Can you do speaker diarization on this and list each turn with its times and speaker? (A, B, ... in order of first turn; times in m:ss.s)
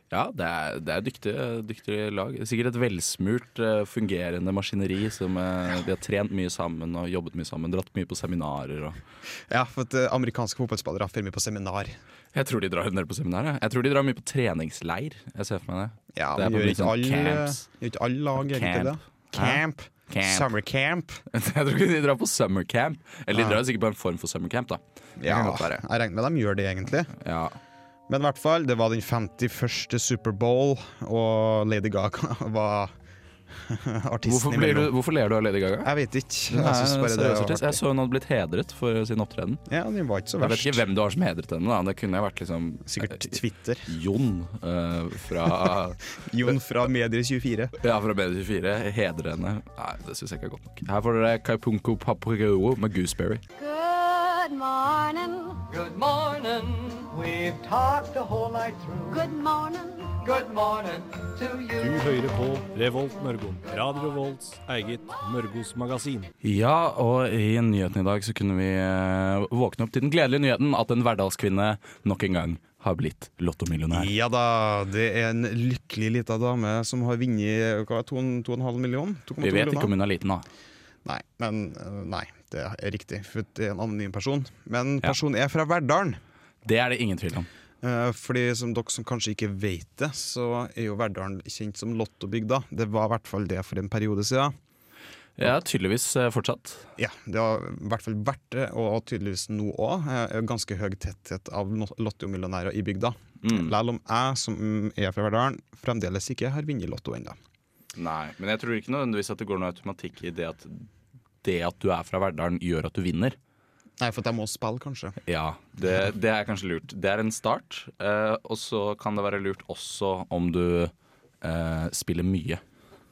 0:00.1-0:09.0 A
0:09.5-0:12.0 B
0:12.3-0:17.6 A
0:16.1-0:21.2 B
0:18.4-0:20.5 A
0:21.3-0:25.8 A
0:23.3-0:23.6 B
0:25.2-0:27.1 B
0:27.1-0:27.6 A
0:28.1-0:33.0 B
0:33.5-0:34.9 B
0:34.2-0:35.9 A
0:35.8-0:37.8 B
0:36.5-0:39.6 A
0:39.7-0:40.8 B
0:40.4-0:46.5 A
0:42.8-0:43.9 B
0:45.4-0:47.7 B
0:47.8-0:53.4 A
0:53.6-0:55.6 C
0:55.7-0:59.2 D
0:59.1-1:00.2 C
1:00.2-1:02.0 D
1:01.8-1:06.3 E
1:06.4-1:14.1 A
1:13.9-1:19.9 B
1:19.4-1:20.5 A
1:21.0-1:26.2 B
1:26.6-1:27.5 A
1:27.8-1:34.6 B
1:35.4-1:36.9 A
1:37.0-1:47.4 B
1:43.4-1:43.7 A
1:48.0-1:50.9 A
1:51.4-1:53.4 A
1:54.0-1:55.2 B
1:55.3-2:02.6 A